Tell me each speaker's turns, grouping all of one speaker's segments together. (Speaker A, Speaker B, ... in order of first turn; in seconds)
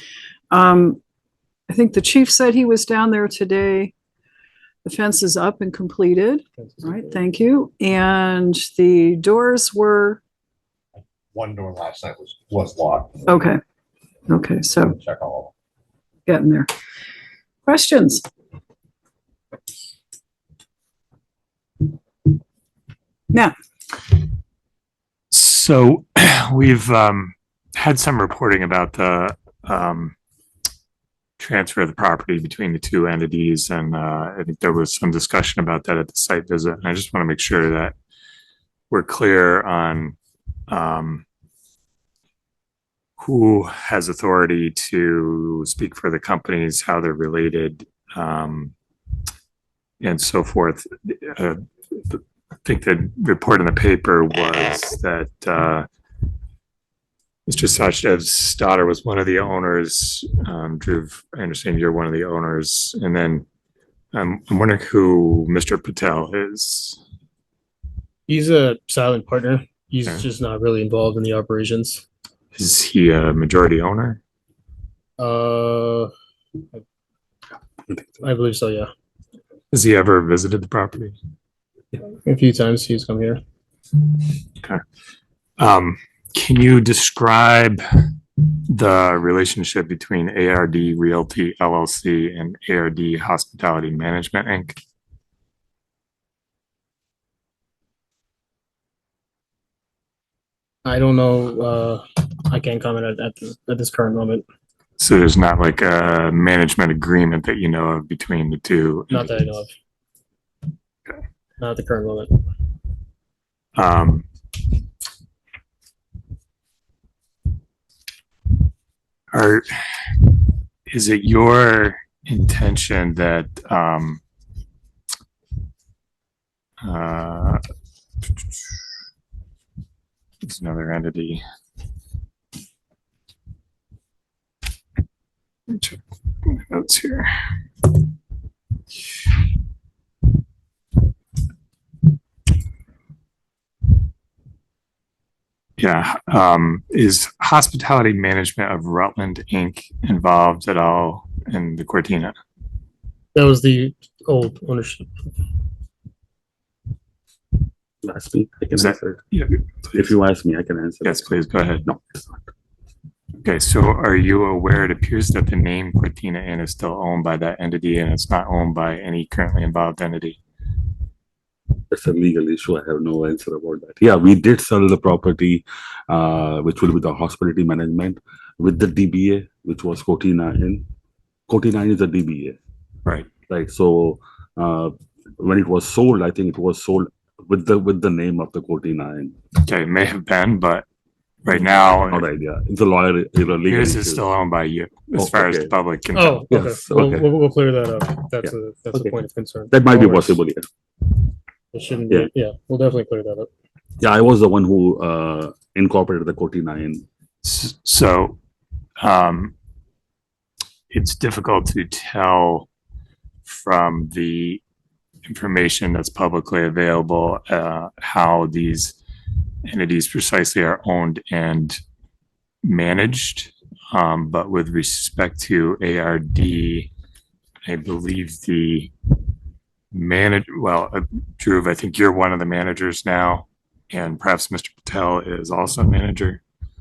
Speaker A: 0.5-1.0, 1.7-3.9, 4.8-10.2, 13.3-13.6, 14.3-15.0, 16.3-16.7, 17.6-18.3
Speaker B: 6.6-7.2, 68.3-72.0, 75.2-76.1, 78.2-78.9, 82.0-83.4, 100.8-104.4, 109.1-109.7, 111.6-112.3, 153.3-155.1, 196.1-200.4, 201.7-203.5
Speaker C: 11.0-13.3, 14.9-15.5
Speaker D: 25.3-30.1, 31.4-38.0, 38.9-40.2, 40.7-41.2, 43.2-48.7, 50.0-55.9, 57.5-63.5, 64.1-67.0, 72.5-74.2, 79.7-81.2, 85.6-88.0, 88.7-94.8, 105.0-109.4, 113.8-114.2, 119.3-120.2, 120.9-124.2, 126.8-127.6, 130.4-131.4, 135.7-137.3, 145.8-152.3, 158.8-159.6, 161.0-161.8, 163.4-170.4, 189.6-190.8, 191.4-192.3, 193.7-196.4, 207.4-208.4, 209.0-209.5, 210.9-212.7, 213.4-214.6, 215.2-219.0, 219.7-221.8, 222.6-226.9, 227.7-228.9, 229.9-236.4
Speaker E: 158.0-159.2, 159.9-161.3, 161.8-162.5, 171.9-180.8, 181.5-182.6, 183.5-189.3, 191.5-194.2, 195.2-195.7, 196.5-197.3, 199.7-200.7, 204.0-207.1